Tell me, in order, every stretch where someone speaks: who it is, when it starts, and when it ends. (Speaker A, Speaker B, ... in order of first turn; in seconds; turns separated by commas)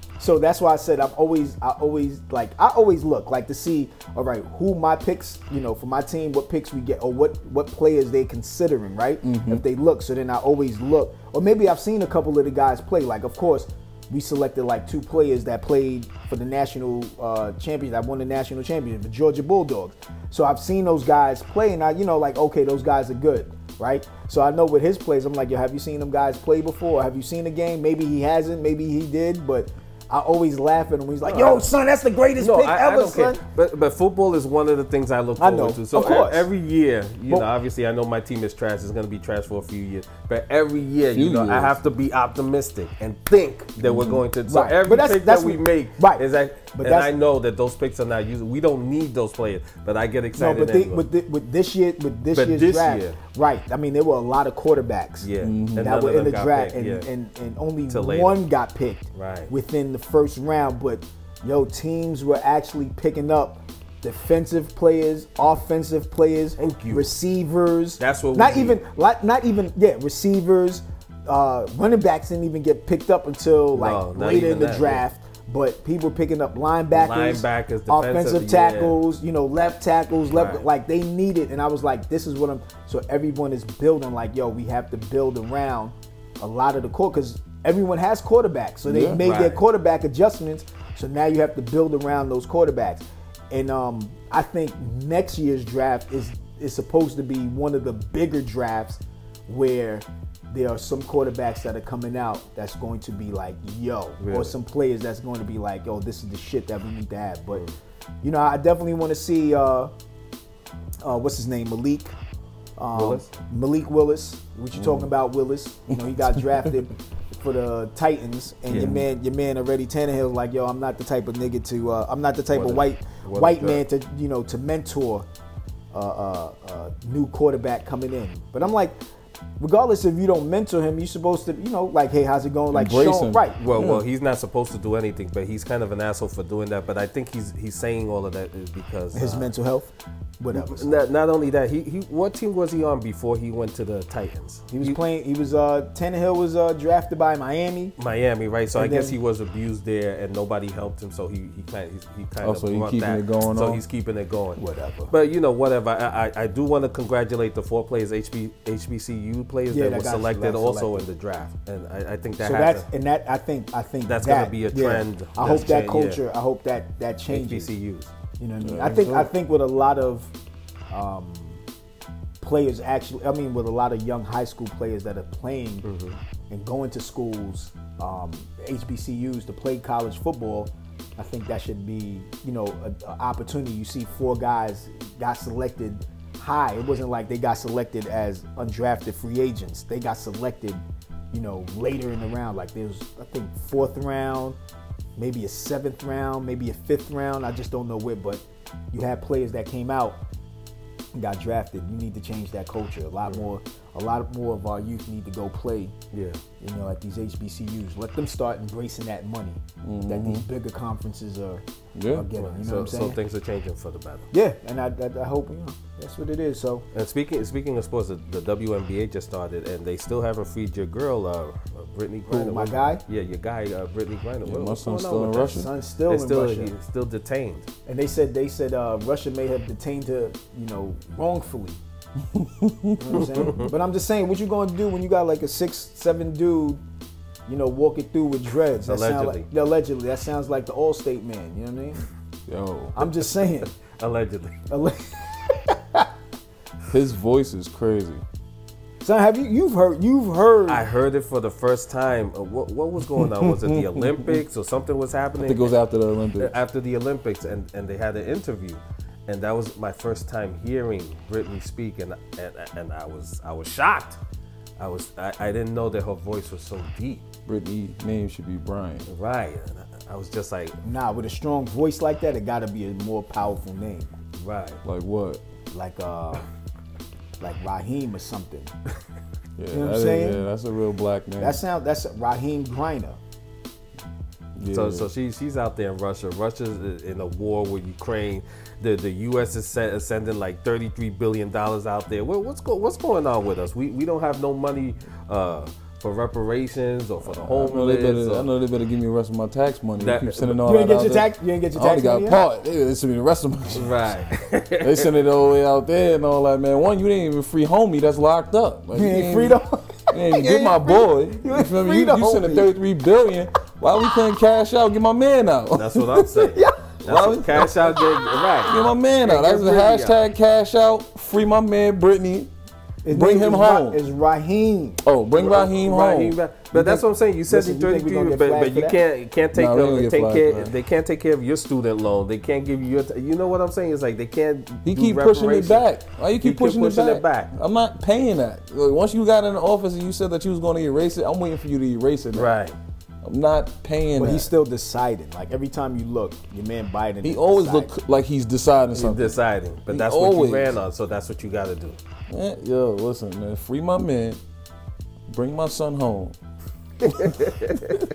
Speaker A: 0.2-33.4, Speaker B: 9.2-9.6, Speaker C: 31.2-31.6, Speaker C: 32.4-51.0, Speaker A: 35.4-36.5, Speaker B: 41.1-41.8, Speaker B: 43.8-44.2, Speaker A: 44.5-47.1, Speaker A: 50.4-107.6, Speaker C: 52.4-53.2, Speaker C: 55.2-57.1, Speaker B: 55.4-56.0, Speaker C: 57.9-58.4, Speaker C: 59.1-59.5, Speaker C: 66.6-67.1, Speaker C: 68.0-68.8, Speaker C: 73.7-75.0, Speaker C: 76.9-79.0, Speaker C: 80.3-80.7, Speaker B: 88.9-89.2, Speaker C: 89.2-89.6, Speaker C: 104.2-104.5, Speaker A: 108.2-109.9, Speaker A: 111.0-112.2, Speaker A: 112.8-125.3, Speaker C: 112.9-113.4, Speaker B: 114.7-115.1, Speaker B: 115.9-116.8, Speaker C: 118.7-119.0, Speaker B: 118.7-119.0, Speaker C: 122.5-123.8, Speaker A: 125.9-129.0, Speaker A: 129.6-133.6, Speaker B: 132.7-134.1, Speaker C: 133.6-139.5, Speaker A: 139.1-140.9, Speaker C: 140.5-145.0, Speaker A: 144.7-147.9, Speaker C: 148.0-154.6, Speaker A: 148.7-149.2, Speaker B: 152.4-153.8, Speaker A: 154.6-155.1, Speaker C: 155.1-162.9, Speaker A: 159.7-161.0, Speaker A: 162.4-167.7, Speaker C: 164.1-166.2, Speaker C: 167.3-168.1, Speaker A: 168.4-170.3, Speaker B: 168.6-169.3, Speaker A: 170.9-171.6, Speaker A: 172.4-175.9, Speaker C: 175.8-176.2, Speaker A: 176.5-194.6, Speaker A: 195.2-200.2, Speaker A: 201.2-205.9, Speaker C: 206.1-206.4, Speaker A: 206.6-213.2, Speaker B: 209.8-210.5, Speaker B: 211.9-212.3, Speaker C: 212.4-214.3, Speaker A: 214.3-216.8, Speaker C: 216.9-227.7, Speaker A: 222.3-223.0, Speaker B: 224.4-225.7, Speaker A: 225.5-226.7, Speaker A: 227.9-231.8, Speaker B: 232.3-233.5, Speaker A: 233.0-236.8, Speaker C: 233.1-233.7, Speaker A: 237.5-242.1, Speaker C: 238.9-239.5, Speaker B: 242.5-243.0, Speaker A: 243.0-243.7, Speaker C: 243.2-244.6, Speaker A: 244.7-246.1, Speaker B: 246.9-248.2, Speaker A: 249.0-250.9, Speaker C: 250.7-255.7, Speaker B: 253.2-254.4, Speaker B: 255.4-256.6, Speaker C: 256.4-264.2, Speaker C: 264.8-267.3, Speaker B: 267.5-269.1, Speaker C: 269.1-270.8, Speaker A: 270.8-274.1, Speaker C: 274.4-274.8, Speaker B: 274.8-275.4, Speaker A: 275.7-276.5, Speaker A: 277.4-278.7, Speaker B: 279.6-281.6, Speaker A: 279.7-280.4, Speaker A: 281.4-283.2, Speaker B: 284.6-285.1, Speaker C: 284.7-298.5, Speaker B: 297.2-304.2, Speaker C: 300.0-300.6, Speaker A: 300.6-302.4, Speaker C: 303.7-305.1, Speaker B: 304.8-309.6, Speaker A: 308.9-312.7, Speaker B: 310.1-316.5, Speaker C: 315.8-320.2, Speaker A: 316.5-316.9, Speaker B: 317.1-317.9, Speaker B: 318.6-322.5, Speaker A: 323.0-325.0, Speaker B: 323.1-324.0, Speaker B: 325.0-326.4, Speaker C: 325.4-335.9, Speaker A: 326.7-329.0, Speaker B: 329.5-330.7, Speaker B: 334.9-342.5, Speaker C: 336.4-337.5, Speaker C: 342.3-342.8, Speaker B: 343.2-344.5, Speaker A: 344.2-347.9, Speaker B: 347.2-350.8, Speaker C: 348.9-352.0, Speaker B: 352.3-354.4, Speaker B: 355.3-356.4, Speaker C: 357.2-358.0